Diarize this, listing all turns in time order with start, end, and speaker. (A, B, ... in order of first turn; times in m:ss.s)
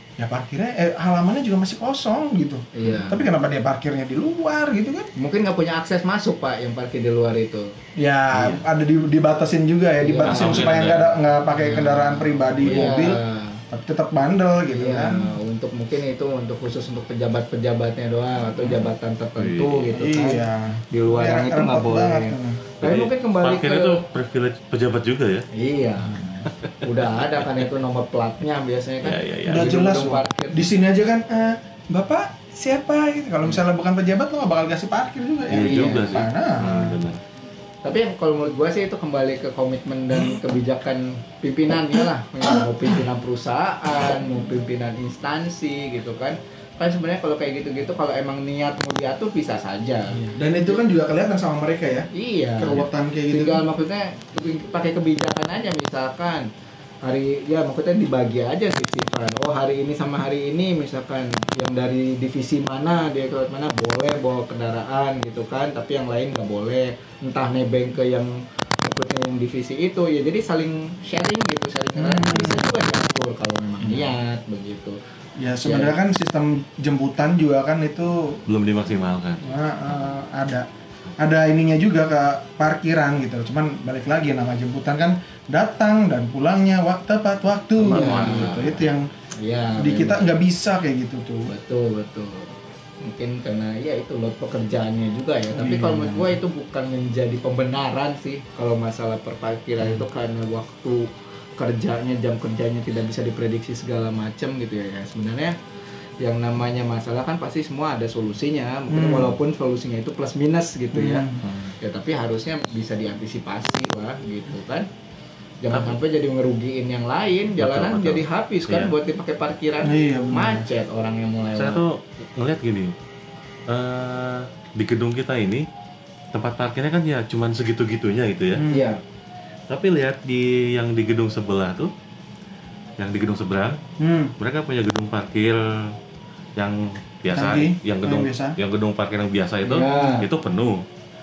0:00.2-0:05.1 A
0:02.7-0:03.3 B
0:05.2-0:07.7 B
0:08.0-0:13.2 A
0:08.3-0:08.6 C
0:10.0-0:10.8 B
0:10.3-0:11.1 C
0:11.5-0:13.6 B
0:13.7-0:15.3 A
0:14.7-0:24.0 B
0:19.4-0:20.0 C
0:19.9-0:22.6 A
0:22.8-0:25.5 C
0:25.5-0:26.2 B
0:26.0-0:26.5 A
0:26.8-0:30.7 B
0:29.0-0:29.7 C
0:29.4-0:37.1 A
0:35.5-0:37.2 C
0:35.5-0:36.2 B
0:37.8-0:50.2 B
0:50.1-0:53.6 A
0:52.1-0:56.5 B
0:57.0-1:08.3 B
1:08.8-1:15.0 B
1:12.0-1:12.6 A
1:13.8-1:14.1 A
1:15.4-1:18.4 A
1:15.6-1:16.0 B
1:18.5-1:19.4 C
1:19.4-1:20.7 A
1:21.2-1:29.1 A
1:27.8-1:28.8 B
1:27.9-1:28.8 C
1:29.4-1:30.3 B
1:29.8-1:31.5 A
1:31.5-1:41.0 B
1:35.5-1:36.4 A
1:41.6-1:45.5 B
1:46.2-1:51.3 B
1:48.9-1:49.4 A
1:50.9-1:51.4 A
1:51.4-1:51.7 C
1:51.8-1:54.8 B
1:55.6-2:01.8 B
1:55.7-1:56.0 C
1:57.6-1:58.9 C
1:59.8-2:00.7 A
2:01.6-2:02.9 C
2:03.7-2:05.7 C
2:06.3-2:08.6 C
2:08.5-2:08.9 A
2:08.7-2:09.0 B
2:09.7-2:11.9 C
2:13.0-2:13.8 C
2:14.0-2:14.3 A
2:14.4-2:15.6 C
2:16.6-2:20.8 C
2:17.3-2:18.6 A
2:19.6-2:20.3 B